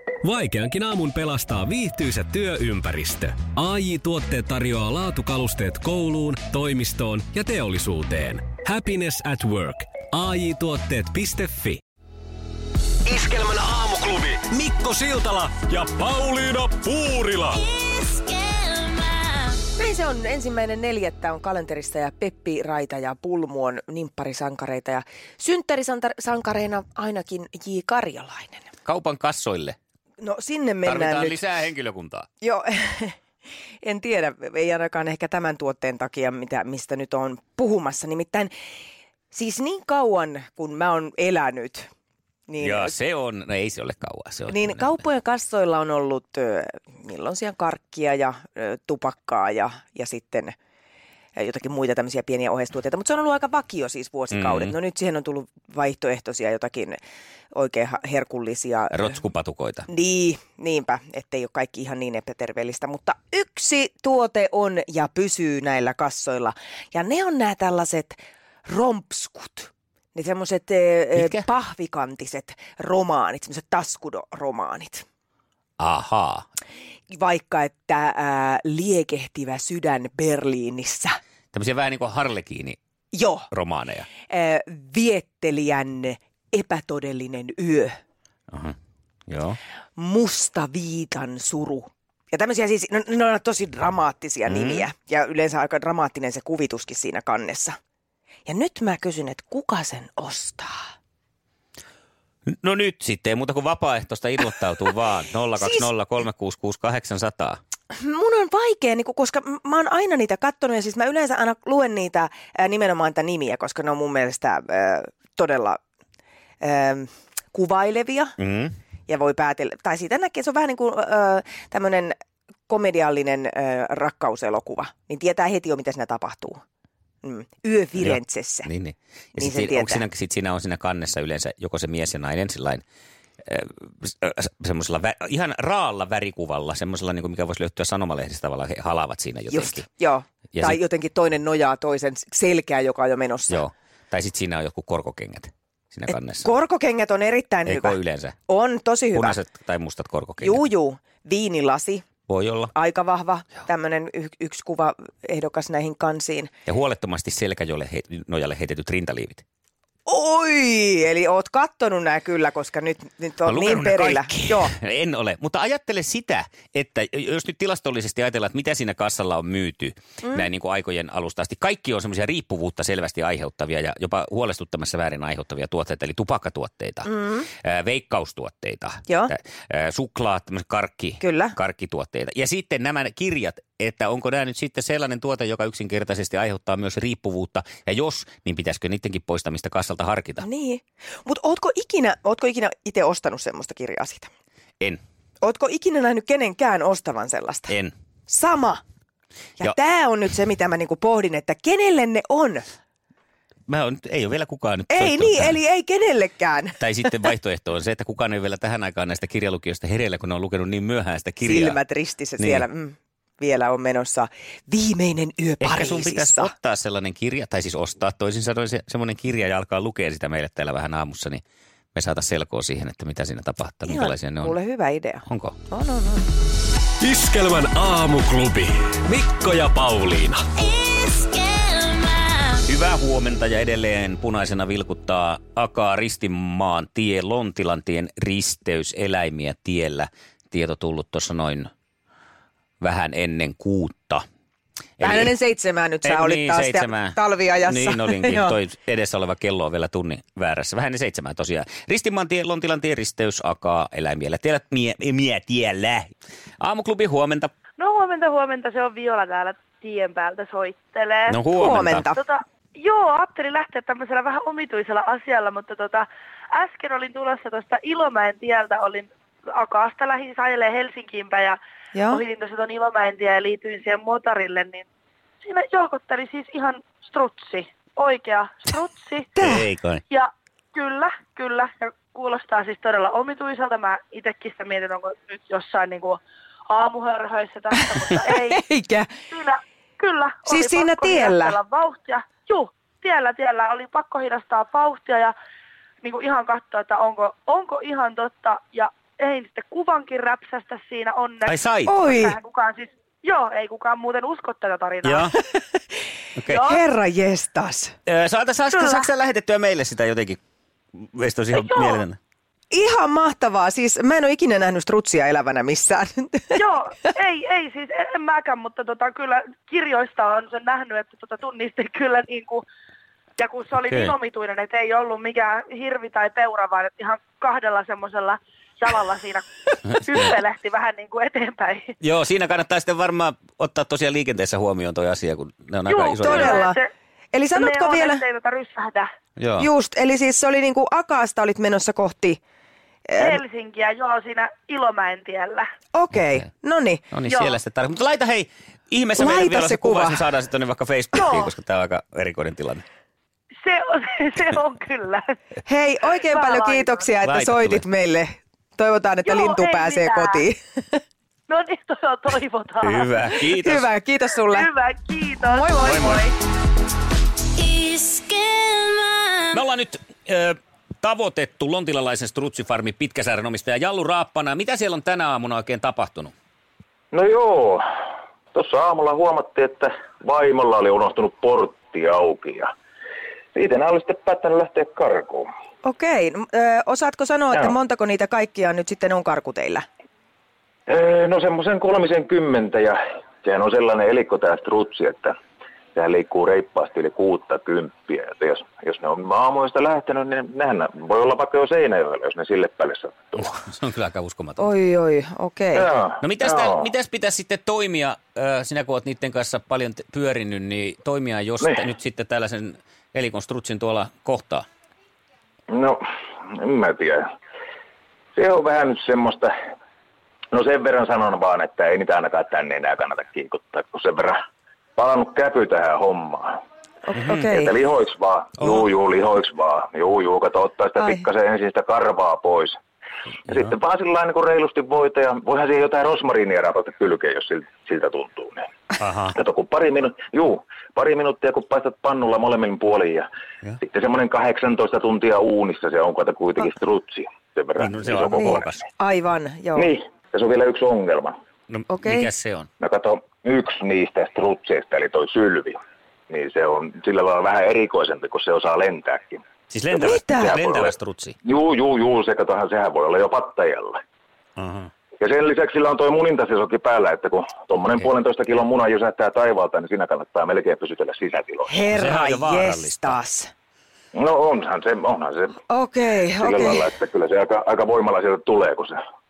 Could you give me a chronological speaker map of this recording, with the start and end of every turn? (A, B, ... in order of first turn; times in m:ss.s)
0:00.2-0:11.8 A
0:13.1-0:17.6 A
0:18.4-0:18.6 B
0:19.8-0:28.7 C
0:28.8-0:29.8 D
0:30.2-0:31.4 C
0:30.8-0:32.3 D
0:32.4-0:33.1 C
0:33.8-0:38.5 C
0:39.3-0:41.9 C
0:42.5-0:42.9 C
0:42.6-0:45.0 D
0:44.5-0:50.5 C
0:51.4-0:57.0 C
0:54.3-0:54.7 D
0:57.5-0:59.2 C
0:58.9-0:59.8 D
0:59.9-1:15.0 C
1:11.1-1:11.4 D
1:15.8-1:16.5 D
1:17.1-1:21.2 C
1:21.5-1:22.8 D
1:23.1-1:23.5 C
1:23.5-1:24.1 D
1:24.3-1:28.0 C
1:29.3-1:29.6 D
1:30.0-1:37.8 C
1:34.5-1:34.8 D
1:38.4-1:40.9 C
1:42.5-1:47.6 D
1:45.6-1:45.9 C
1:47.9-1:55.8 C
1:56.6-1:58.3 C
1:58.4-1:58.7 D
1:59.1-2:02.2 C
2:02.7-2:06.6 C
2:07.2-2:08.7 C
2:08.0-2:12.8 D
2:09.4-2:10.0 C
2:13.4-2:19.9 D
2:19.5-2:23.6 C
2:20.5-2:20.8 D
2:23.5-2:26.5 D
2:26.1-2:29.4 C
2:27.6-2:28.4 D
2:29.1-2:30.6 D
2:30.4-2:32.0 C
2:32.3-2:32.7 D
2:32.7-2:36.5 C
2:36.6-2:39.4 D
2:40.0-2:44.7 C
2:43.4-3:10.4 D
2:57.1-2:57.4 C
2:59.1-2:59.3 C
3:01.2-3:01.5 C
3:10.4-3:14.3 C
3:15.4-3:17.7 C
3:17.7-3:17.9 D
3:18.3-3:18.8 C
3:19.6-3:22.6 C
3:23.7-3:25.6 D
3:24.9-3:26.8 C
3:26.8-3:31.8 D
3:31.4-3:36.5 C
3:32.4-3:32.6 D
3:35.6-3:41.4 D
3:41.9-3:44.5 D
3:43.8-3:46.2 C
3:45.2-3:45.6 D
3:47.0-3:50.4 A
3:51.6-3:52.4 B
3:52.6-4:01.7 D
4:02.8-4:04.2 D
4:05.0-4:05.3 D
4:05.0-4:08.6 C
4:06.0-4:17.5 D
4:17.8-4:21.4 E
4:21.3-4:22.1 D
4:21.5-4:22.2 C
4:22.1-4:34.8 E
4:31.9-4:32.2 C
4:35.4-4:39.3 E
4:39.4-4:39.7 C
4:39.4-4:40.0 D
4:40.1-4:48.6 E
4:48.2-4:49.1 C
4:49.3-4:55.3 E
4:50.5-4:51.6 C
4:56.0-5:05.4 E
5:01.4-5:02.1 D
5:01.9-5:02.4 C
5:05.0-5:05.3 D
5:06.4-5:06.6 D
5:06.4-5:06.8 E
5:06.6-5:08.0 C
5:08.0-5:10.4 D
5:08.7-5:09.1 E
5:11.0-5:12.2 D
5:11.5-5:12.0 E
5:12.7-5:16.6 C
5:16.6-5:22.6 E
5:23.4-5:32.0 E
5:23.9-5:24.1 D
5:32.0-5:36.6 D
5:35.9-5:36.9 E
5:36.2-5:36.8 C
5:37.3-5:38.2 C
5:37.5-5:39.1 E
5:39.4-5:39.7 D
5:39.6-5:42.4 C
5:43.1-5:43.4 C
5:43.2-5:45.6 E
5:45.9-5:47.1 C
5:47.1-5:52.8 D
5:47.2-5:47.6 E
5:49.2-5:50.3 C
5:51.2-5:51.4 E
5:53.6-5:55.4 E
5:55.6-6:01.0 C
5:56.2-5:57.1 E
5:57.2-5:57.8 D
5:59.2-6:00.4 E
6:01.5-6:03.6 E
6:02.8-6:03.9 D
6:03.6-6:04.7 C
6:04.4-6:06.3 E
6:05.5-6:05.9 C
6:05.8-6:06.2 D
6:07.6-6:09.3 B
6:09.5-6:16.3 D
6:17.1-6:17.8 F
6:18.5-6:22.7 F
6:23.5-6:25.5 F
6:25.8-6:29.8 C
6:30.9-6:35.3 F
6:35.9-6:43.5 F
6:43.4-6:44.7 D
6:44.6-6:45.9 C
6:45.7-6:46.9 F
6:46.2-6:54.6 D
6:55.7-6:57.2 F
6:58.4-6:59.5 F
7:00.5-7:04.4 F
7:05.0-7:06.6 F
7:07.1-7:07.7 C
7:07.5-7:12.8 F
7:11.0-7:11.2 C
7:13.5-7:18.7 F
7:19.0-7:19.4 D
7:19.3-7:23.3 F
7:23.8-7:28.8 F
7:27.8-7:28.8 D
7:28.3-7:29.9 C
7:29.8-7:31.4 F
7:31.7-7:32.7 D
7:31.9-7:32.3 C
7:32.8-7:35.8 F
7:36.3-7:39.4 F
7:39.7-7:41.4 D
7:40.0-7:40.6 C
7:40.1-7:44.0 F
7:44.6-7:44.9 D
7:45.2-7:51.7 F
7:51.7-7:53.5 C
7:51.9-7:53.2 D
7:54.1-7:55.5 F
7:55.7-7:56.9 C
7:56.4-7:59.0 F